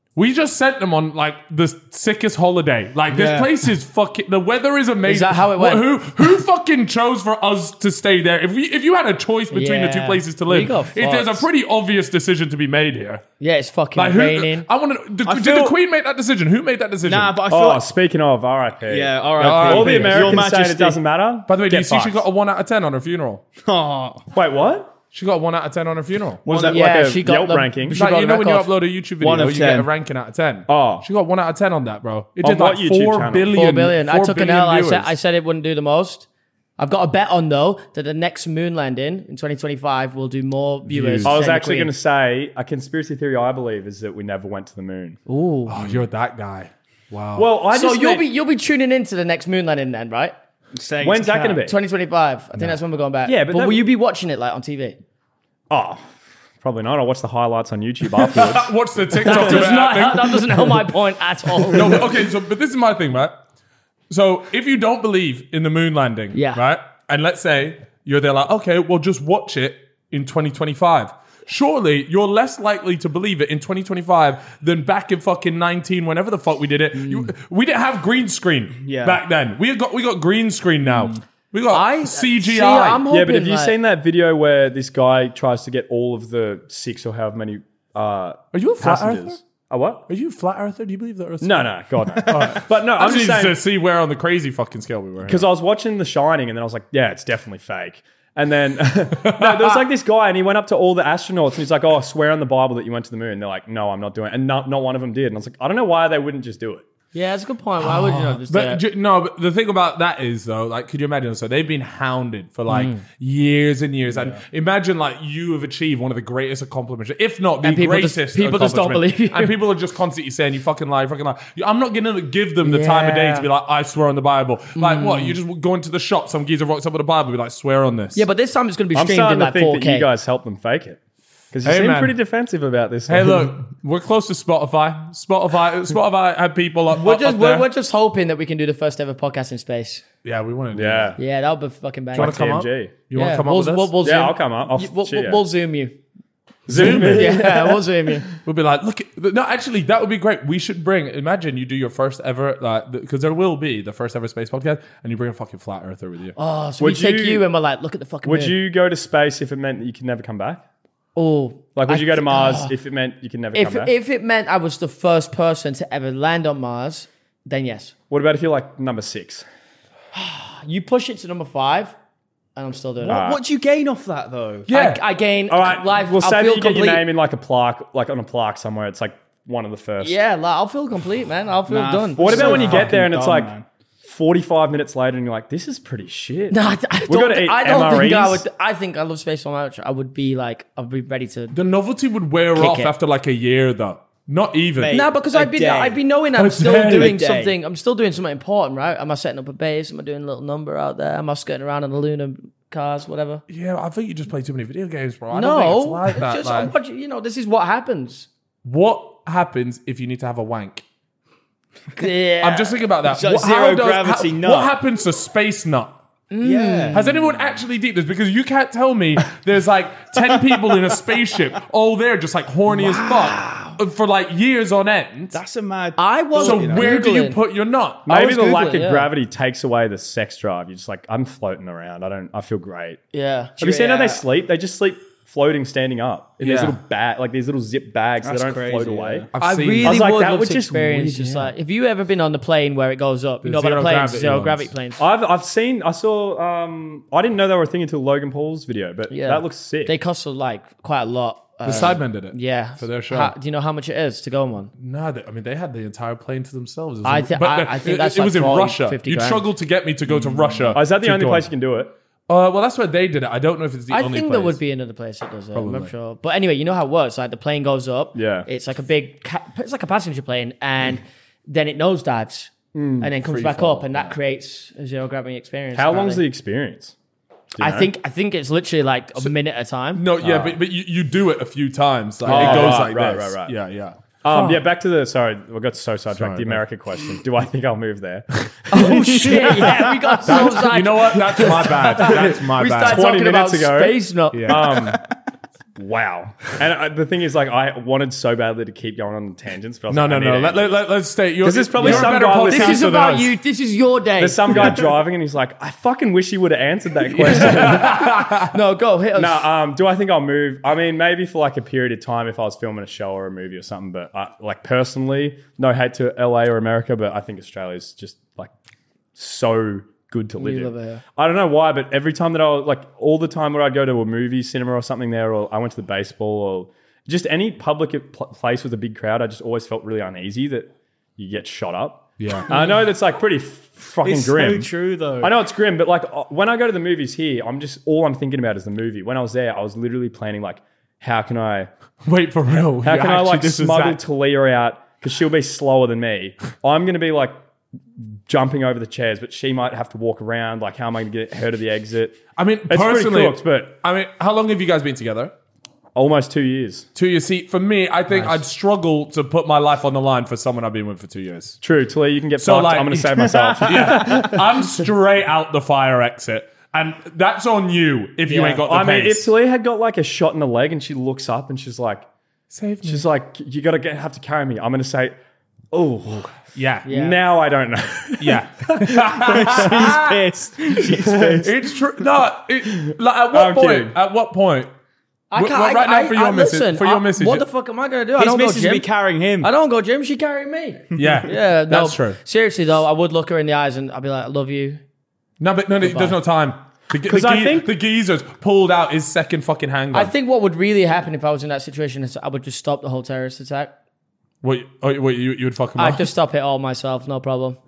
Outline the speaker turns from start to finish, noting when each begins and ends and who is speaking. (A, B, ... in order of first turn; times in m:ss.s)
0:00.2-0:13.2 A
0:03.1-0:03.5 B
0:05.0-0:06.2 B
0:09.5-0:11.4 B
0:13.4-0:14.7 B
0:14.0-0:17.4 A
0:15.2-0:15.8 C
0:17.0-0:17.9 C
0:17.5-0:22.2 D
0:18.9-0:21.0 C
0:19.4-0:20.4 A
0:21.5-0:23.4 A
0:23.6-0:24.2 C
0:24.3-0:24.9 D
0:25.1-0:26.4 A
0:26.4-0:28.0 D
0:26.4-0:26.9 C
0:26.6-0:28.7 B
0:27.9-0:35.1 A
0:29.2-0:29.9 C
0:30.7-0:31.0 D
0:32.4-0:33.5 D
0:33.5-0:36.2 B
0:36.8-0:41.9 B
0:40.8-0:41.4 A
0:41.2-0:45.2 D
0:45.3-0:45.8 B
0:45.7-0:47.5 A
0:47.4-0:48.3 D
0:47.7-0:50.4 B
0:50.7-0:51.6 C
0:51.0-0:51.8 D
0:51.6-0:55.0 B
0:53.2-0:53.9 D
0:55.7-0:58.7 D
0:58.2-1:00.9 A
0:59.2-1:02.1 B
0:59.3-0:59.5 D
1:01.6-1:03.4 A
1:04.1-1:23.0 A
1:06.3-1:06.6 B
1:18.8-1:19.2 C
1:21.7-1:23.7 B
1:23.1-1:30.1 D
1:28.5-1:29.4 A
1:30.1-1:35.5 A
1:31.4-1:33.6 D
1:35.2-1:46.9 D
1:39.1-1:39.8 A
1:47.1-1:48.8 B
1:47.8-2:08.2 A
1:52.7-1:53.0 B
1:57.6-1:59.6 B
2:02.6-2:03.5 B
2:04.8-2:05.4 B
2:08.1-2:10.1 B
2:08.9-2:11.0 D
2:11.5-2:13.6 D
2:11.6-2:12.2 A
2:13.1-2:17.7 A
2:16.9-2:20.0 B
2:20.2-2:21.2 A
2:20.7-2:21.2 D
2:21.2-2:22.4 B
2:22.1-2:22.9 D
2:22.1-2:24.0 A
2:23.1-2:26.0 B
2:24.0-2:25.4 D
2:26.7-2:27.8 D
2:26.7-2:27.4 A
2:26.8-2:28.2 B
2:28.4-2:36.4 A
2:36.4-2:38.6 B
2:36.8-2:37.4 D
2:38.2-2:40.6 D
2:41.2-2:42.7 B
2:41.7-2:43.9 D
2:43.5-2:47.9 B
2:48.1-2:49.4 D
2:50.1-2:51.9 B
2:52.6-2:53.2 B
2:53.0-2:54.7 C
2:53.1-2:53.4 D
2:54.6-2:55.0 A
2:54.7-2:57.1 B
2:55.5-3:00.2 D
3:00.0-3:02.9 B
3:01.7-3:03.6 C
3:02.2-3:08.4 D
3:06.5-3:11.6 B
3:11.5-3:15.0 A
3:12.5-3:12.9 B
3:14.8-3:16.0 C
3:14.9-3:23.4 B
3:16.4-3:17.2 A
3:16.6-3:17.6 C
3:23.5-3:26.7 A
3:25.3-3:28.3 B
3:28.6-3:30.8 A
3:32.0-3:32.8 B
3:32.4-3:36.0 A
3:33.0-3:34.7 C
3:36.3-3:37.2 B
3:36.4-3:37.1 C
3:36.9-3:45.4 A
3:45.3-3:46.9 C
3:46.0-3:47.4 B
3:46.4-3:48.2 A
3:48.1-3:53.0 D
3:48.1-3:49.1 B
3:53.1-3:54.2 B
3:53.6-3:59.3 D
3:56.4-3:56.8 A
3:58.2-3:59.3 C
3:59.3-4:00.0 A
3:59.4-4:05.0 B
3:59.8-4:01.5 D
4:03.4-4:04.7 A
4:05.0-4:09.9 D
4:09.1-4:14.7 B
4:11.6-4:13.3 A
4:14.8-4:21.5 A
4:17.0-4:19.5 B
4:20.7-4:21.9 D
4:22.3-4:24.6 A
4:23.9-4:36.2 B
4:25.5-4:25.9 A
4:28.1-4:28.5 D
4:32.7-4:33.1 D
4:33.2-4:34.2 A
4:35.7-4:36.9 D
4:37.6-4:37.9 D
4:37.6-4:40.0 B
4:39.9-4:44.0 A
4:40.2-4:40.6 D
4:42.2-4:43.5 D
4:42.3-4:42.8 B
4:44.2-4:50.5 D
4:44.3-4:44.6 B
4:46.1-4:46.6 A
4:48.7-4:54.8 B
4:50.2-4:53.1 A
4:52.0-4:55.1 D
4:54.3-4:54.9 A
4:55.8-5:00.8 D
4:59.9-5:03.4 A
5:01.4-5:02.9 D
5:01.8-5:04.8 B
5:04.2-5:08.1 D
5:07.1-5:08.5 A
5:07.4-5:09.5 B
5:09.1-5:18.5 D
5:19.1-5:41.7 D
5:20.4-5:21.0 B
5:32.2-5:32.5 A
5:34.0-5:35.3 C
5:42.0-5:44.0 A
5:42.8-5:47.4 D
5:48.2-5:53.8 D
5:52.4-5:55.3 A
5:55.9-5:56.9 D
5:56.9-6:01.6 A
6:01.6-6:04.7 D
6:02.4-6:09.3 A
6:03.4-6:04.2 C
6:08.3-6:08.6 B
6:08.4-6:12.0 D
6:12.5-6:13.1 A
6:12.8-6:15.2 D
6:15.7-6:19.9 D
6:16.5-6:16.9 A
6:16.8-6:17.2 B
6:18.2-6:20.2 A
6:19.2-6:21.5 C
6:20.8-6:21.5 D
6:21.4-6:24.7 A
6:22.6-6:24.0 D
6:25.3-6:28.9 B
6:25.3-6:27.4 A
6:28.2-6:29.5 C
6:29.4-6:34.8 B
6:30.9-6:31.2 C
6:31.0-6:32.2 A
6:35.4-6:40.1 A
6:35.8-6:36.1 B
6:37.0-6:37.7 D
6:39.9-6:43.7 B
6:44.4-6:46.1 A
6:45.8-6:47.6 B